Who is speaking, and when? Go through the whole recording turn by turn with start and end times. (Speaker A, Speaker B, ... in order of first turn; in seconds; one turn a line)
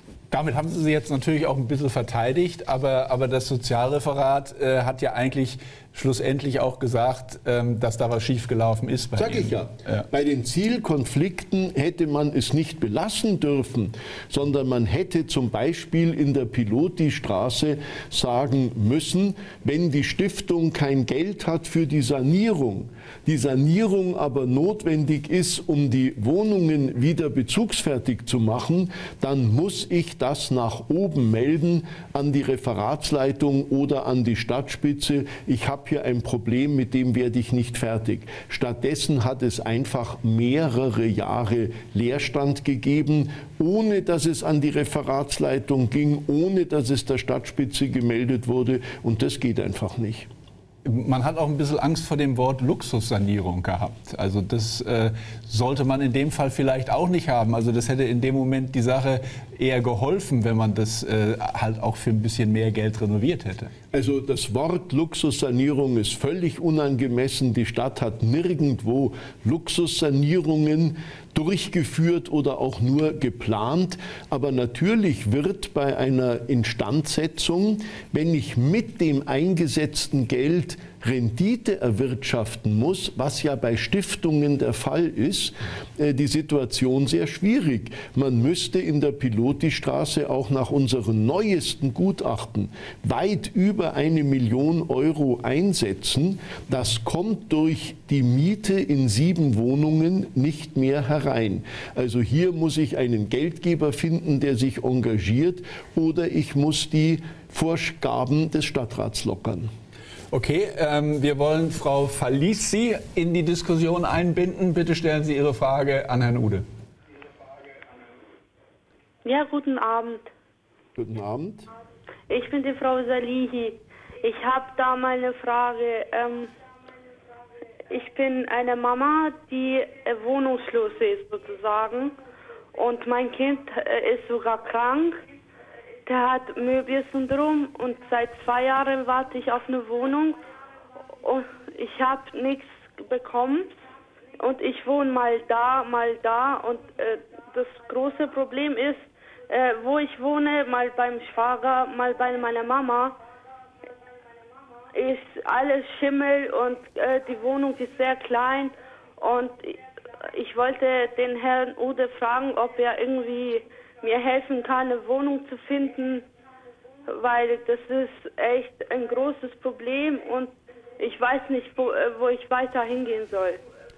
Speaker A: 0.3-10.1
Speaker B: 9.2-50.3
Speaker A: 50.8-63.7
Speaker B: 63.9-109.7
Speaker A: 110.3-116.6
Speaker C: 119.2-120.3
Speaker B: 121.0-121.7
Speaker C: 122.3-126.5
Speaker C: 127.9-132.2
Speaker C: 132.7-135.2
Speaker C: 136.1-140.4
Speaker C: 141.2-143.7
Speaker C: 144.4-153.2
Speaker C: 154.9-159.8
Speaker C: 160.3-166.2
Speaker C: 167.1-173.6